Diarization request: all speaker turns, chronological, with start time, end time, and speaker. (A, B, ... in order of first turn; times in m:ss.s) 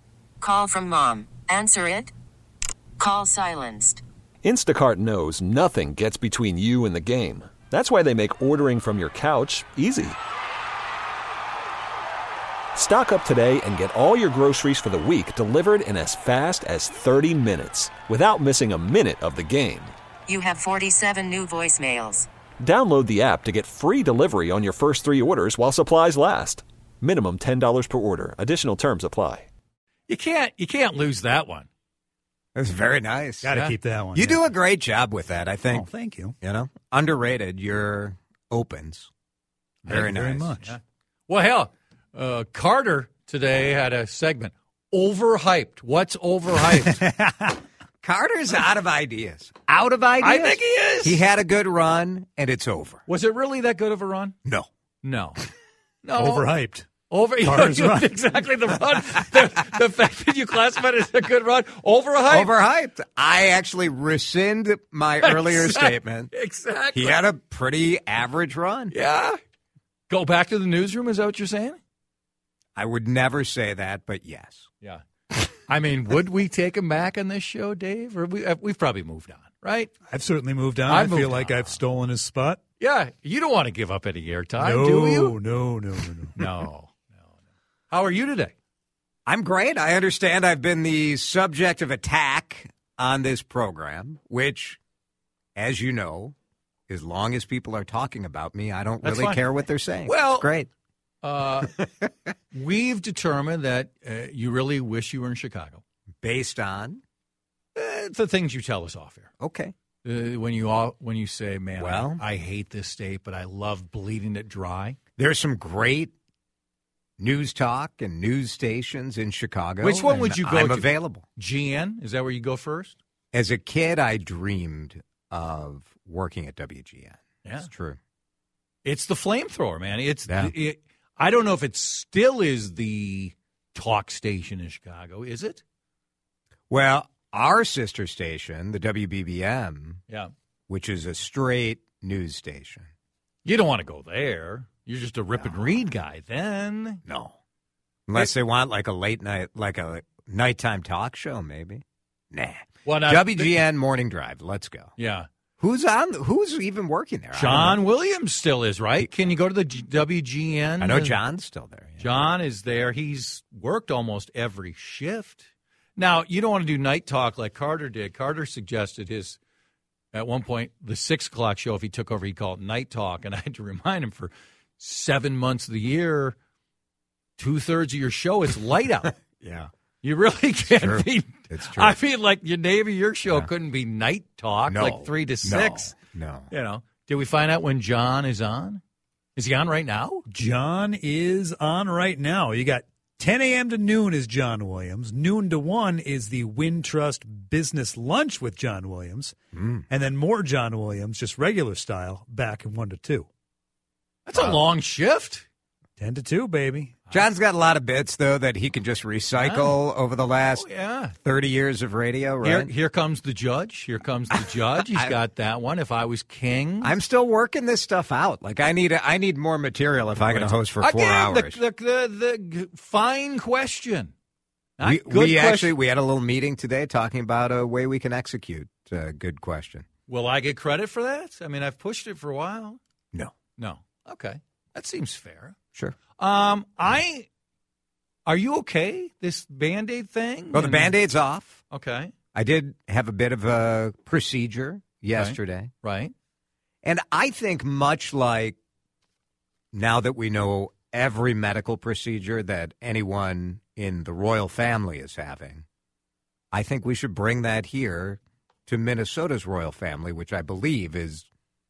0:00.4-0:02.1 A
0:03.0-0:04.0 A
0:04.4-0:10.2 B
0:12.8-0:19.9 B
0:20.3-0:22.3 A
0:22.6-0:29.5 B
0:30.1-0:31.7 C
0:32.5-0:33.5 D
0:33.4-0:34.4 E
0:33.5-0:33.8 C
0:34.2-0:35.8 D
0:35.7-0:36.4 E
0:36.4-0:39.1 D
0:39.9-0:40.8 E
0:40.0-0:40.4 D
0:40.6-0:47.0 C
0:48.0-0:53.0 D
0:50.2-0:51.2 C
0:53.1-0:54.3 C
0:55.0-0:55.4 C
0:56.0-0:56.5 C
0:56.2-0:56.9 E
0:57.1-1:02.6 C
0:57.4-0:58.1 E
1:02.3-1:06.3 D
1:05.2-1:07.3 C
1:06.9-1:08.9 D
1:08.9-1:09.4 C
1:10.1-1:11.8 C
1:12.7-1:14.7 D
1:15.7-1:19.9 C
1:20.1-1:22.6 E
1:20.9-1:21.8 C
1:22.8-1:25.4 C
1:24.6-1:26.5 E
1:26.4-1:27.1 C
1:27.9-1:28.5 C
1:29.2-1:34.8 D
1:35.6-1:36.3 D
1:36.9-1:40.7 D
1:39.0-1:39.4 C
1:40.0-1:40.5 C
1:41.2-1:41.7 C
1:42.5-1:45.8 C
1:46.2-1:47.0 D
1:47.8-1:49.3 C
1:49.4-1:49.7 D
1:50.0-1:55.0 C
1:51.8-1:52.2 D
1:55.2-1:56.1 D
1:57.2-2:01.2 D
1:59.8-2:03.0 C
2:03.3-2:07.2 D
2:07.4-2:07.7 C
2:07.7-2:08.0 D
2:08.8-2:15.6 C
2:16.7-2:20.0 D
2:20.7-2:22.9 D
2:23.4-2:27.0 C
2:27.1-2:27.4 D
2:28.1-2:34.9 D
2:32.8-2:33.7 C
2:35.0-2:35.3 C
2:35.6-2:37.8 D
2:37.3-2:41.2 C
2:40.8-2:42.1 D
2:42.0-2:45.4 C
2:46.0-2:49.4 C
2:50.1-2:56.4 C
2:57.4-2:59.2 C
2:59.4-2:59.7 D
3:00.0-3:06.0 C
3:00.7-3:01.9 D
3:04.7-3:06.5 D
3:06.5-3:08.8 C
3:09.4-3:10.2 C
3:10.3-3:19.3 E
3:19.6-3:19.8 D
3:19.9-3:23.3 E
3:24.2-3:25.4 C
3:26.0-3:27.0 E
3:27.1-3:30.6 D
3:29.3-3:29.8 C
3:30.5-3:31.1 C
3:31.2-3:32.7 D
3:32.4-3:36.9 C
3:36.8-3:41.6 D
3:40.2-3:44.1 C
3:44.8-3:45.8 C
3:44.8-3:49.8 D
3:50.1-3:52.8 C
3:53.6-3:55.6 C
3:56.2-3:57.2 C
3:58.2-4:01.0 C
4:00.5-4:01.6 D
4:01.7-4:02.1 C
4:02.3-4:05.7 D
4:05.1-4:06.1 C
4:06.8-4:08.6 D
4:09.7-4:15.6 D
4:16.5-4:21.3 D